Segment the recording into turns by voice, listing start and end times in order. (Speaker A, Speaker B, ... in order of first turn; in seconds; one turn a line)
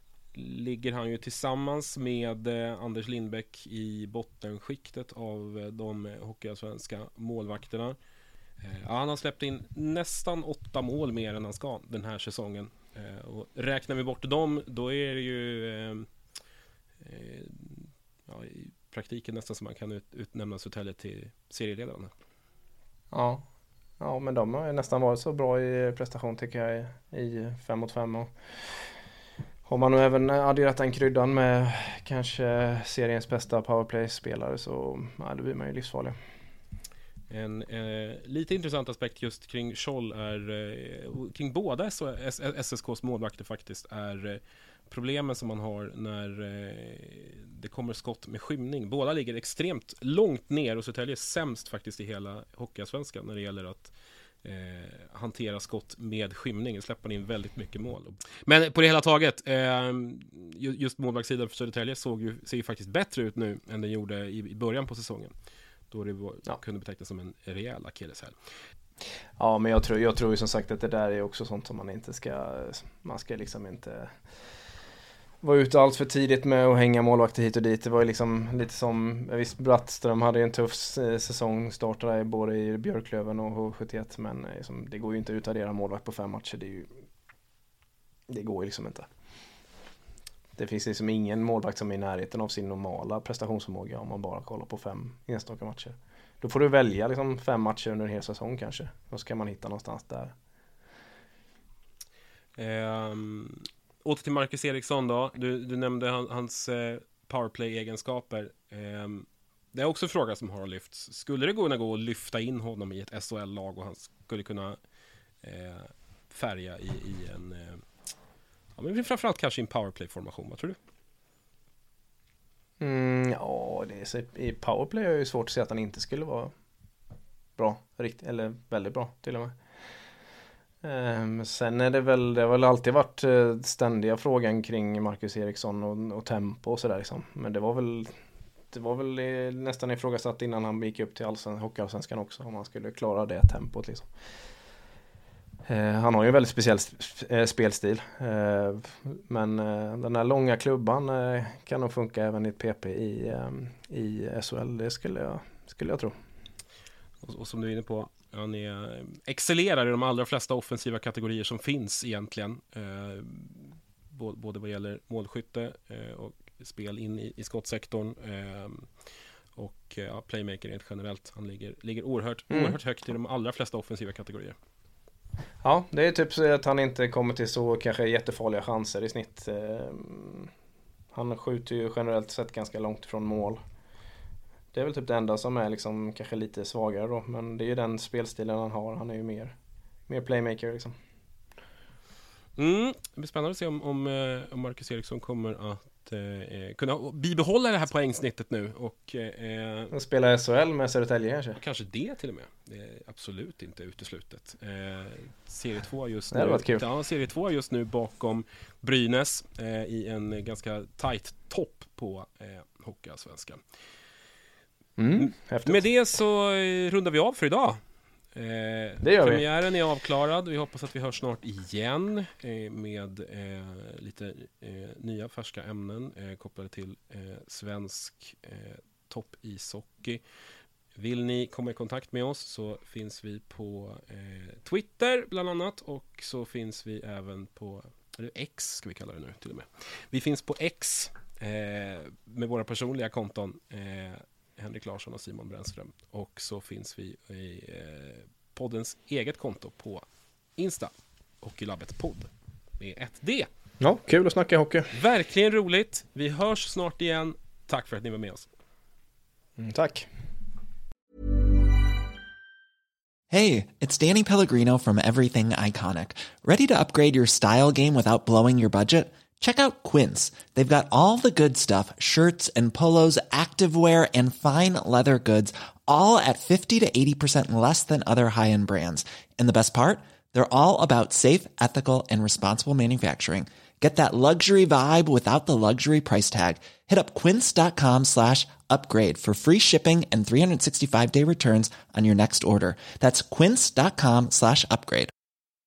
Speaker A: 0.3-8.0
Speaker A: 8.6-16.1
Speaker A: 17.0-22.1
Speaker B: 23.1-23.4
Speaker B: 24.0-28.3
Speaker B: 29.7-36.2
Speaker A: 37.3-53.9
Speaker A: 54.4-65.3
Speaker A: 65.9-68.3
Speaker B: 69.4-74.1
Speaker B: 75.4-86.9
Speaker B: 88.3-89.1
Speaker B: 90.6-100.3
Speaker A: 102.6-114.8
Speaker A: 115.4-117.8
Speaker A: 118.8-120.8
Speaker B: 122.8-126.5
Speaker B: 127.6-129.5
Speaker B: 130.8-138.2
Speaker B: 138.7-144.1
Speaker B: 145.7-156.2
Speaker A: 157.2-168.9
Speaker A: 169.6-174.6
Speaker B: 172.5-172.8
Speaker B: 175.6-180.5
Speaker B: 181.1-183.6
Speaker B: 184.7-189.6
Speaker B: 190.1-190.9
Speaker A: 192.6-199.9
Speaker B: 199.9-201.6
Speaker A: 201.6-213.6
Speaker B: 206.3-206.8
Speaker B: 215.0-215.8
Speaker A: 215.2-217.8
Speaker A: 218.3-230.2
Speaker B: 219.0-219.4
Speaker A: 231.0-250.1
Speaker A: 250.6-253.5
Speaker B: 253.8-254.9
Speaker A: 254.9-258.5
Speaker B: 259.6-260.1
Speaker C: 263.3-295.1